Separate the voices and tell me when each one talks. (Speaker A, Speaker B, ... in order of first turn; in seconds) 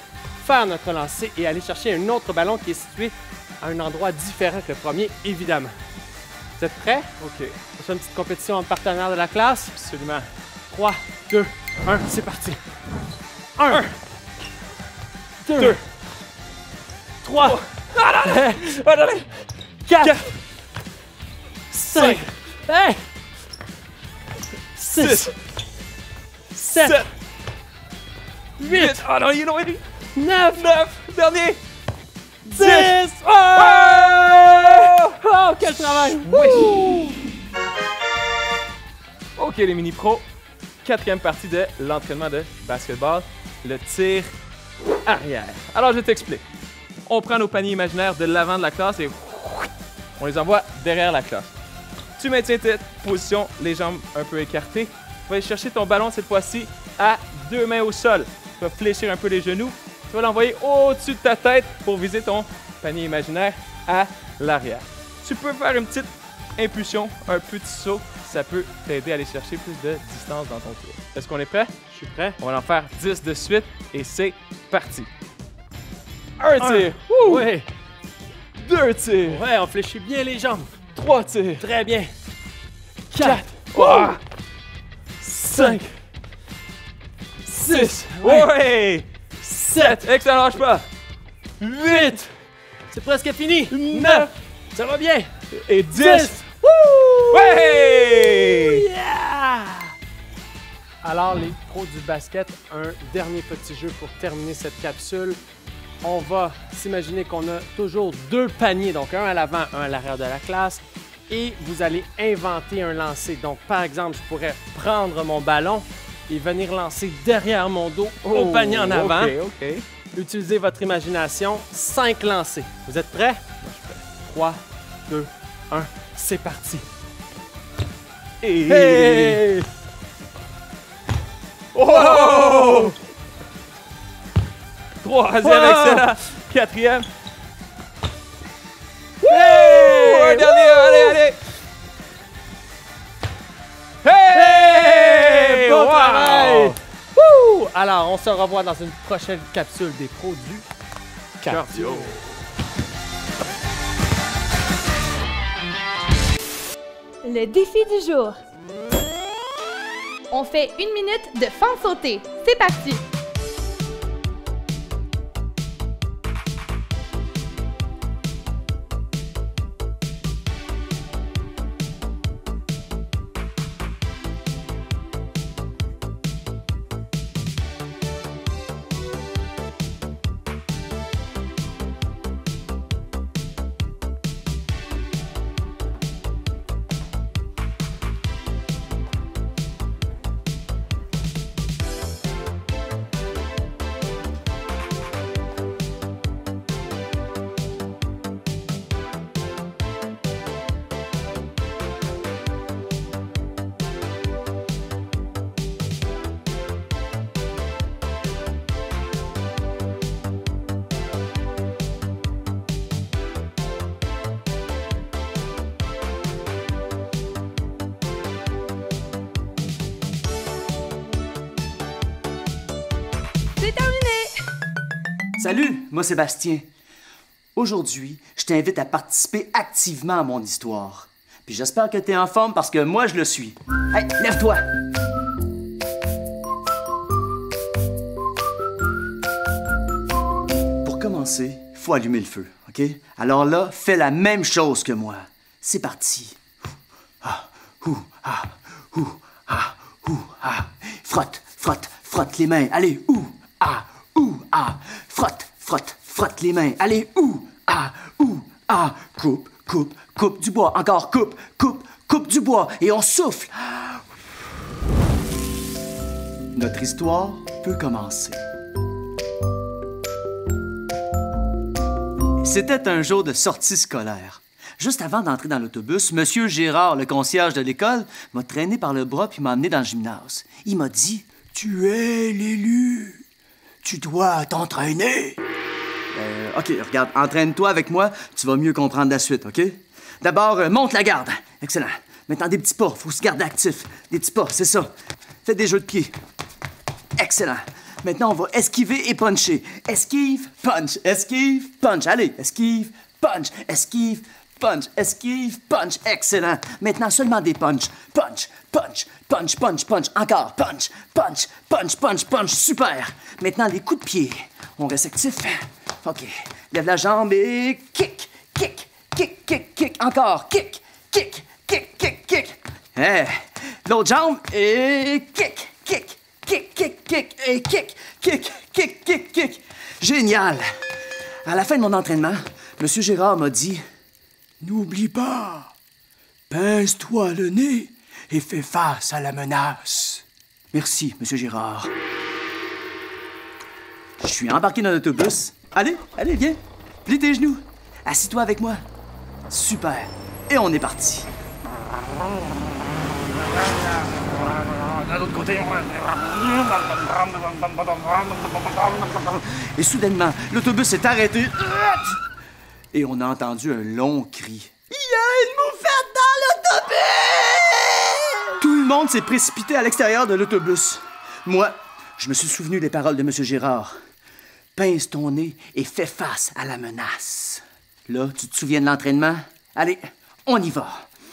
Speaker A: 0.4-5.7, 6.6-7.1, 7.7-9.8, 10.7-12.6, 13.6-14.0, 15.4-15.8, 17.2-17.6, 18.2-18.7, 19.9-20.3, 21.7-23.0, 24.8-25.3, 26.5-27.1, 28.6-29.1, 30.2-30.8, 32.5-34.2, 35.6-37.1, 71.9-72.4, 76.6-77.7, 79.2-80.8, 81.6-82.1, 83.1-84.2, 85.5-85.8, 87.5-88.5, 89.4-90.0, 91.8-92.2, 92.9-95.3, 95.9-100.0, 101.0-105.4, 106.0-119.4, 120.1-123.4, 124.2-126.9, 128.7-129.7, 131.9-132.9, 135.4-136.1, 139.2-141.2, 144.3-150.7, 151.5-152.2
Speaker B: 7.2-7.6, 9.8-10.3, 17.4-19.4, 20.0-20.3, 21.9-22.3, 24.9-25.3, 26.7-27.1, 28.6-31.6, 32.5-33.0, 33.5-37.1, 39.4-40.2, 40.8-44.3, 45.0-46.4, 47.1-51.5, 52.2-71.7, 72.4-75.1, 76.4-77.5, 78.6-79.5, 81.0-81.7, 83.2-84.2, 85.2-85.9, 87.5-89.1, 89.6-90.8, 91.6-92.3, 93.7-94.3, 95.5-96.4, 97.3-98.8, 118.2-119.8, 123.6-124.1, 128.4-129.4, 131.7-132.9, 135.0-137.1, 139.2-141.4, 144.0-146.8, 151.4-152.1
Speaker C: 157.2-158.4, 160.3-163.0, 223.6-224.4
Speaker D: 225.4-226.7, 227.6-234.6, 240.8-246.4, 247.2-264.1, 266.6-268.4, 272.4-283.2, 283.8-285.4, 286.1-294.9, 295.4-296.1, 297.2-330.7, 331.5-333.8, 334.6-335.7, 336.5-341.9, 344.2-348.8, 349.5-351.3, 355.2-355.9, 359.0-362.2, 362.9-373.9, 374.8-381.1